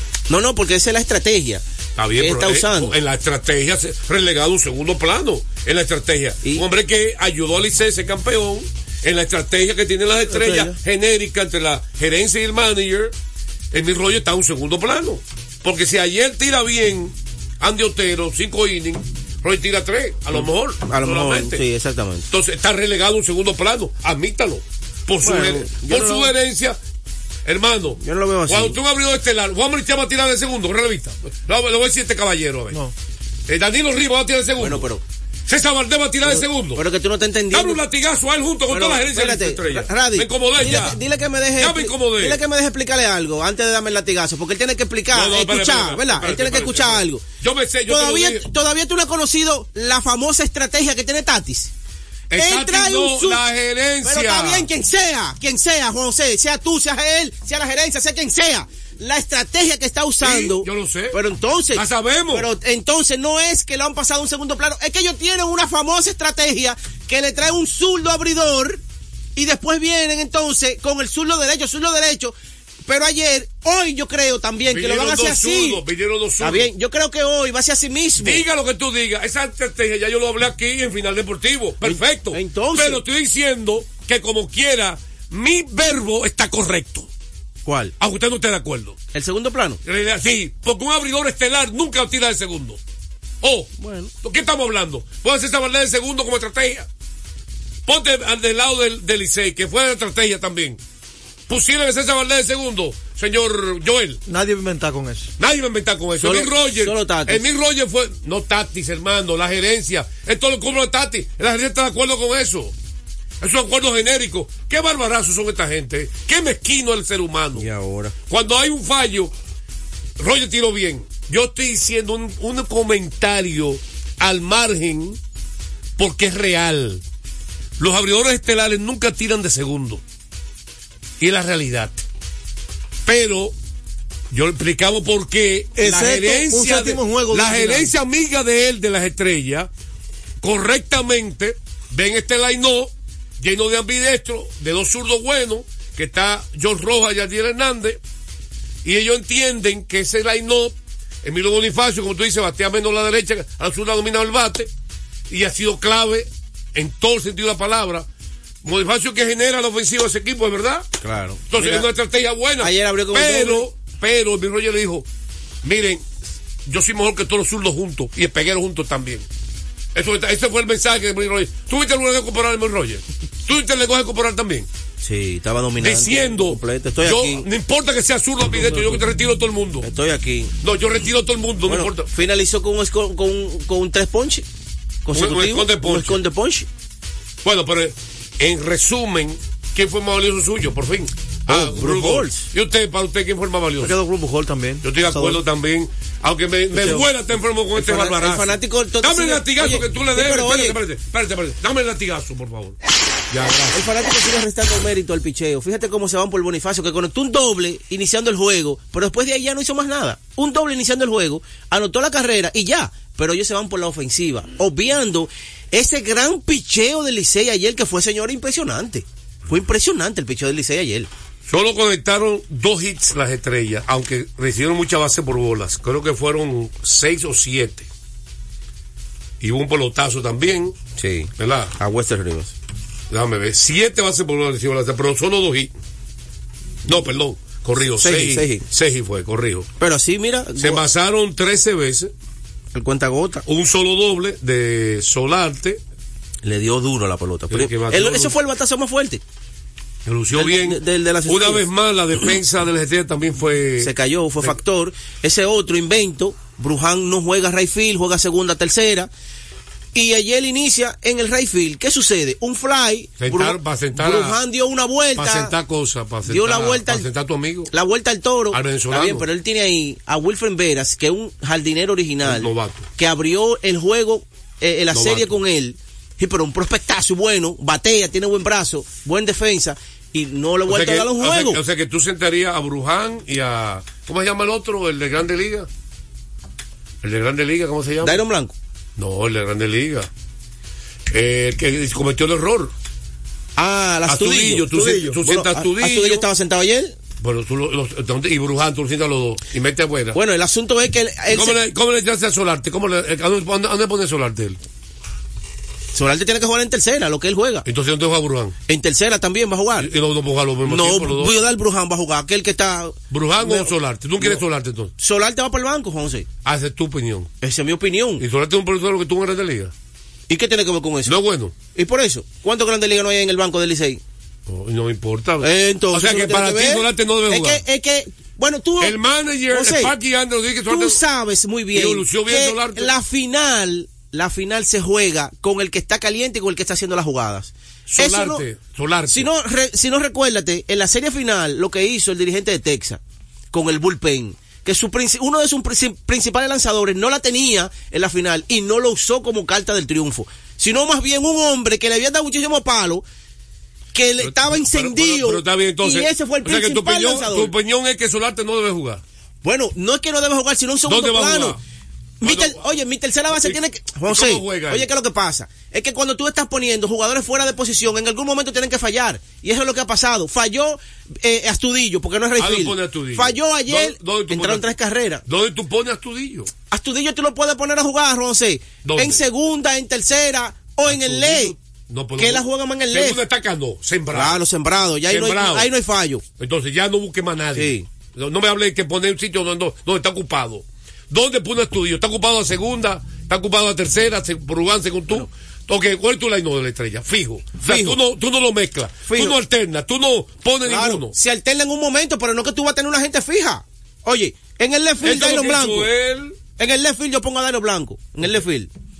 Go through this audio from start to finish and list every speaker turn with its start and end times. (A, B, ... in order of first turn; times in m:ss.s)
0:00.3-0:01.6 A
0:02.0-0:13.1 B
0:02.2-0:02.9 A
0:10.3-0:10.7 A
0:13.7-0:21.6 B
0:20.8-0:22.2 A
0:22.3-0:26.8 B
0:25.2-0:26.3 A
0:27.4-0:32.8 B
0:28.0-0:28.7 A
0:33.5-0:34.9 B
0:34.6-0:35.0 A
0:35.5-0:36.8 B
0:36.3-0:37.8 A
0:37.5-0:41.0 B
0:38.7-0:47.3 A
0:41.5-0:42.4 B
0:45.1-0:48.5 B
0:47.9-0:51.7 A
0:52.3-0:54.7 B
0:52.4-0:53.4 A
0:54.0-1:08.8 A
1:00.2-1:01.2 B
1:01.7-1:02.5 B
1:09.4-1:12.3 A
1:12.9-1:15.8 A
1:14.7-1:16.7 B
1:16.4-1:18.4 A
1:18.2-1:27.1 B
1:21.8-1:23.0 A
1:27.6-1:27.9 A
1:28.0-1:29.0 B
1:29.1-1:29.8 A
1:29.8-1:32.8 B
1:33.4-1:33.7 B
1:33.8-1:34.1 A
1:34.2-1:36.9 B
1:37.8-1:40.8 B
1:41.5-1:44.2 B
1:44.2-1:45.3 C
1:45.4-1:52.7 B
1:46.2-1:47.4 A
1:53.4-1:57.7 B
1:57.6-1:58.2 A
1:58.3-1:59.3 B
2:00.2-2:05.2 B
2:06.0-2:07.0 B
2:07.8-2:10.0 B
2:11.2-2:12.0 B
2:13.0-2:13.5 B
2:14.3-2:19.7 B
2:15.8-2:17.9 C
2:20.4-2:28.0 B
2:28.8-2:34.7 B
2:35.3-2:38.0 B
2:38.6-2:40.8 B
2:41.0-2:41.8 A
2:41.5-2:45.0 B
2:42.6-2:43.6 A
2:45.6-2:46.0 B
2:46.6-2:49.2 B
2:49.9-2:54.7 B
2:55.0-2:57.4 A
2:55.8-2:59.9 B
2:59.8-3:00.5 A
3:00.6-3:02.1 B
3:01.6-3:04.4 A
3:05.0-3:06.7 A
3:05.1-3:06.2 B
3:07.4-3:13.9 B
3:11.5-3:12.5 A
3:13.8-3:15.4 C
3:14.8-3:22.8 B
3:16.7-3:17.0 C
3:17.8-3:20.8 A
3:23.3-3:23.8 B
3:23.7-3:41.1 A
3:41.5-3:47.9 B
3:49.4-3:50.8 B
3:51.0-3:52.5 A
3:51.4-3:51.7 B
3:53.1-3:55.7 B
3:56.8-3:59.7 B
3:58.0-3:58.6 A
3:59.8-4:00.8 A
4:00.6-4:02.1 B
4:02.7-4:03.4 A
4:03.4-4:05.8 B
4:06.4-4:09.2 A
4:07.5-4:08.4 B
4:10.0-4:14.6 B
4:10.3-4:11.6 A
4:13.8-4:19.1 A
4:19.9-4:25.5 A
4:23.2-4:24.4 B
4:25.2-4:27.7 B
4:26.3-4:27.0 A
4:27.7-4:41.6 A
4:28.5-4:29.3 B
4:32.2-4:32.9 B
4:34.9-4:35.4 B
4:40.7-4:45.7 B
4:47.0-4:48.2 B
4:48.0-4:48.5 A
4:49.0-4:50.1 B
4:51.1-4:52.7 B
4:53.6-4:57.0 A
4:54.0-4:56.3 B
4:57.2-5:00.2 B
5:00.1-5:01.6 A
5:01.3-5:04.6 B
5:05.9-5:07.6 A
5:07.6-5:08.5 B
5:08.7-5:09.9 A
5:09.8-5:11.4 B
5:10.6-5:13.7 A
5:13.1-5:14.9 B
5:15.0-5:16.3 A
5:16.4-5:17.3 B
5:17.4-5:18.2 A
5:18.2-5:19.7 B
5:20.3-5:21.1 A
5:21.0-5:21.6 B
5:21.7-5:24.0 A
5:24.5-5:27.6 B
5:25.4-5:29.0 A
5:28.8-5:31.0 B
5:29.5-5:29.9 A
5:30.7-5:38.4 A
5:31.7-5:32.9 B
5:37.9-5:39.3 B
5:39.1-5:43.0 A
5:43.5-5:53.0 A
5:53.9-5:57.5 A
5:54.2-5:59.0 B
5:59.4-6:01.6 A
6:00.8-6:01.6 B
6:02.2-6:02.8 B
6:02.2-6:15.2 A
6:03.3-6:04.9 B
6:12.4-6:14.7 B
6:15.3-6:16.5 B
6:16.6-6:21.5 A
6:18.8-6:19.2 B
6:20.8-6:24.4 B
6:22.2-6:23.2 A
6:24.1-6:26.2 A
6:25.0-6:25.7 B
6:26.3-6:41.2 B
6:27.6-6:27.8 A
6:37.6-6:38.0 A
6:39.1-6:39.3 A
6:40.7-6:45.9 A
6:45.0-6:46.4 B
6:46.6-6:48.7 A